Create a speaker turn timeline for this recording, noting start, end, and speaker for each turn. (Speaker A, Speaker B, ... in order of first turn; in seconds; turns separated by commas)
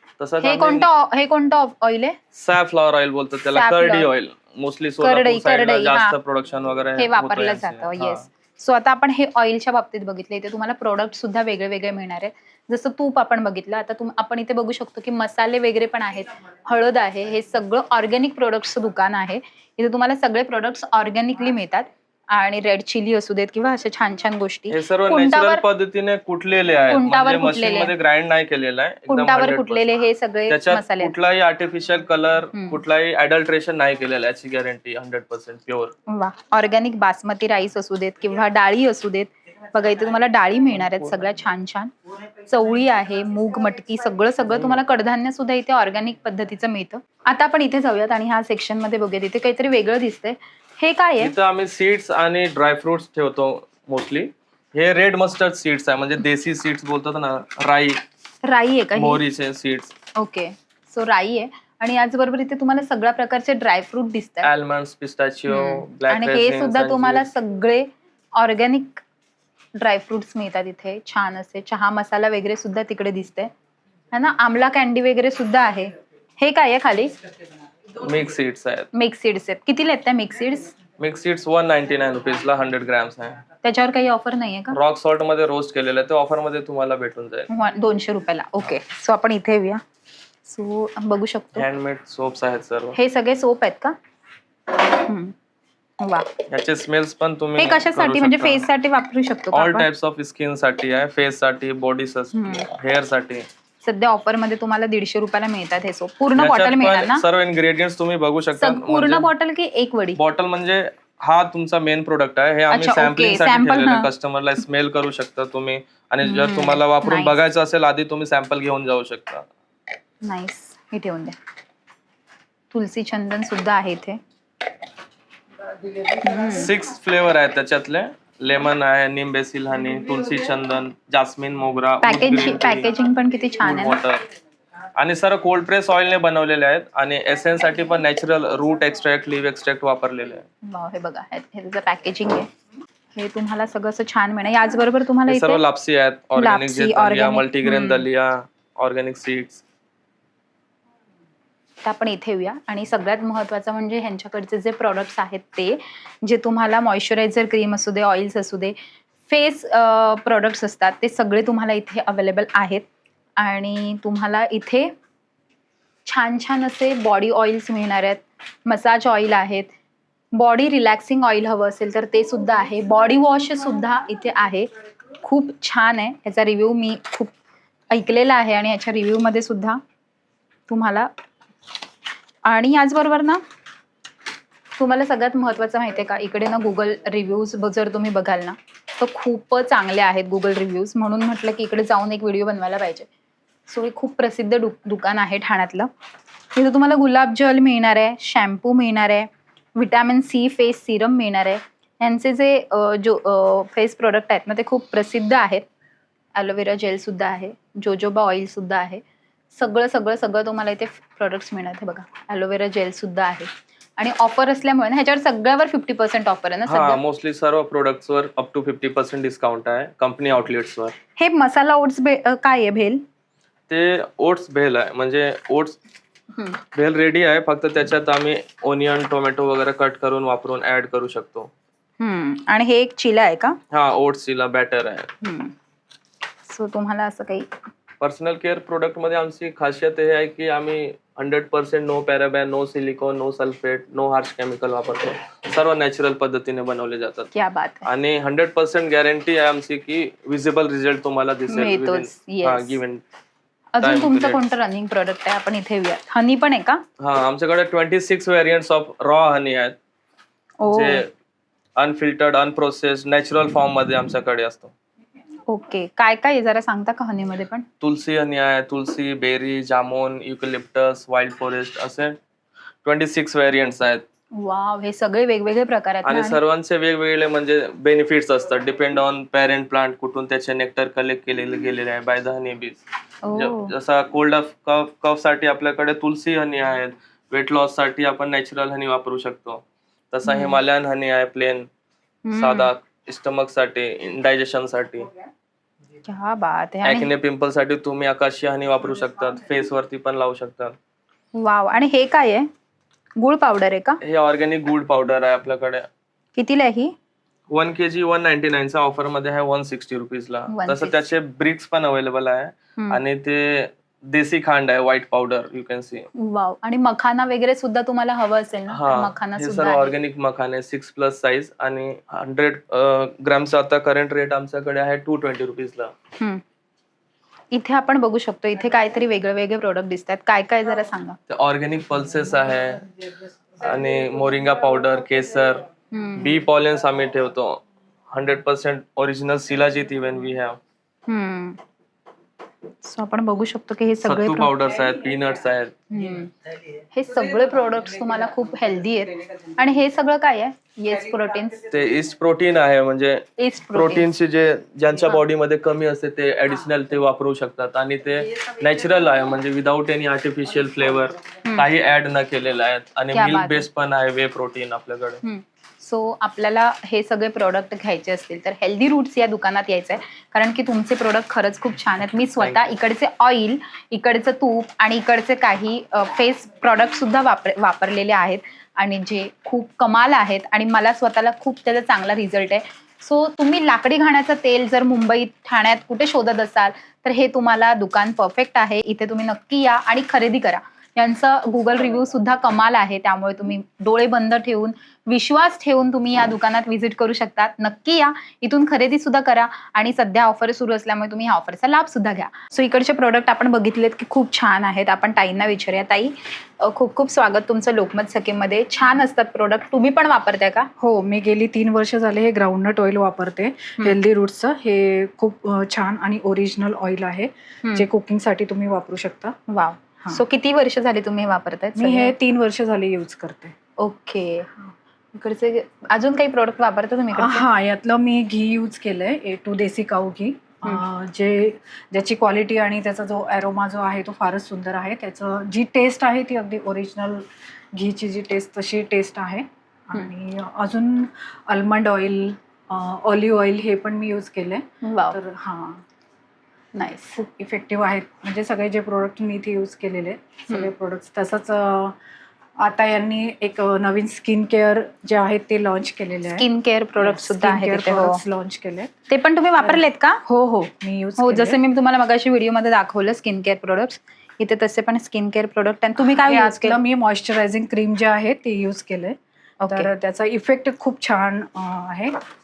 Speaker A: 0.2-0.9, Speaker B: 0.4-2.2, Speaker A: 2.3-8.2, Speaker B: 3.5-4.1, Speaker B: 5.0-6.2, Speaker B: 7.0-25.6, Speaker A: 24.7-29.9, Speaker B: 26.9-27.9, Speaker B: 29.1-31.1, Speaker A: 30.5-35.9, Speaker B: 32.5-32.8, Speaker B: 36.1-41.9, Speaker B: 42.4-51.3, Speaker A: 51.2-58.0, Speaker B: 58.4-59.2, Speaker A: 58.9-59.9, Speaker B: 60.1-64.5, Speaker A: 64.4-67.3, Speaker B: 65.5-69.0, Speaker B: 69.8-73.5, Speaker B: 74.1-77.1, Speaker A: 78.0-78.9, Speaker B: 78.9-80.7, Speaker A: 81.0-83.4, Speaker B: 83.6-84.8, Speaker A: 84.7-87.5, Speaker B: 87.5-89.8, Speaker B: 90.4-91.7, Speaker A: 91.5-93.0, Speaker B: 92.9-93.9, Speaker B: 95.0-95.3, Speaker B: 96.0-96.3, Speaker A: 96.5-98.7, Speaker B: 97.6-99.9, Speaker A: 99.5-103.5, Speaker B: 102.3-102.7, Speaker B: 103.8-107.2, Speaker A: 106.4-109.3, Speaker B: 108.6-110.2, Speaker A: 110.2-119.5, Speaker B: 112.7-114.1, Speaker B: 116.2-117.4, Speaker B: 120.2-121.3, Speaker B: 122.7-124.2, Speaker B: 126.2-126.7, Speaker A: 126.5-132.9, Speaker B: 132.0-134.0, Speaker A: 133.6-134.2, Speaker A: 135.0-140.4, Speaker B: 140.6-142.5, Speaker B: 143.1-145.6, Speaker A: 145.3-149.6, Speaker B: 146.4-148.1, Speaker B: 151.8-158.7, Speaker B: 159.3-162.8, Speaker B: 163.4-164.9, Speaker B: 166.1-169.7, Speaker B: 170.3-174.7, Speaker B: 175.2-177.3, Speaker B: 177.9-179.8, Speaker B: 180.7-181.1, Speaker B: 182.4-183.4, Speaker B: 184.8-193.1, Speaker B: 193.7-195.9, Speaker B: 196.5-205.7, Speaker B: 206.3-209.0, Speaker B: 209.5-217.0, Speaker A: 216.7-220.9, Speaker B: 221.2-223.0, Speaker A: 223.7-225.8, Speaker A: 226.7-231.5, Speaker B: 232.0-233.6, Speaker A: 233.7-235.1, Speaker B: 235.2-235.5, Speaker B: 236.4-237.5, Speaker A: 238.0-247.3, Speaker B: 247.3-247.8, Speaker A: 247.8-253.0, Speaker B: 251.5-252.8, Speaker B: 253.7-256.8, Speaker A: 253.8-254.4, Speaker A: 257.0-259.8, Speaker B: 260.6-261.0, Speaker A: 260.7-261.1, Speaker A: 261.8-264.7, Speaker B: 265.5-267.6, Speaker A: 267.8-272.2, Speaker A: 272.8-274.0, Speaker B: 274.4-276.4, Speaker A: 276.0-282.8, Speaker B: 283.2-283.7, Speaker A: 283.3-291.7, Speaker B: 290.2-290.6, Speaker B: 292.2-292.7, Speaker A: 292.4-295.1, Speaker B: 296.0-297.1, Speaker A: 296.8-300.8, Speaker B: 301.3-302.5, Speaker B: 303.2-304.0, Speaker A: 304.0-305.9, Speaker B: 306.4-306.9, Speaker A: 307.5-316.1, Speaker B: 310.5-311.1, Speaker B: 316.1-319.9, Speaker A: 318.7-325.9, Speaker B: 327.5-331.2, Speaker A: 331.3-332.9, Speaker A: 333.6-340.6, Speaker B: 335.9-336.3, Speaker B: 341.1-341.6, Speaker B: 342.8-344.5, Speaker A: 344.0-345.7, Speaker B: 345.9-346.3, Speaker B: 346.9-351.6, Speaker A: 351.7-365.2, Speaker B: 353.4-354.1, Speaker B: 363.1-363.6, Speaker B: 365.2-410.7, Speaker C: 410.8-419.3, Speaker B: 419.5-422.1, Speaker C: 421.8-423.5, Speaker B: 423.8-424.5, Speaker B: 425.1-427.5, Speaker C: 427.1-445.8, Speaker B: 444.8-445.2, Speaker B: 446.7-447.2, Speaker C: 447.1-451.9, Speaker C: 452.6-458.9, Speaker B: 456.4-458.2, Speaker B: 459.1-460.2, Speaker C: 459.6-461.6, Speaker B: 461.2-466.8, Speaker C: 466.0-472.2, Speaker B: 469.6-469.9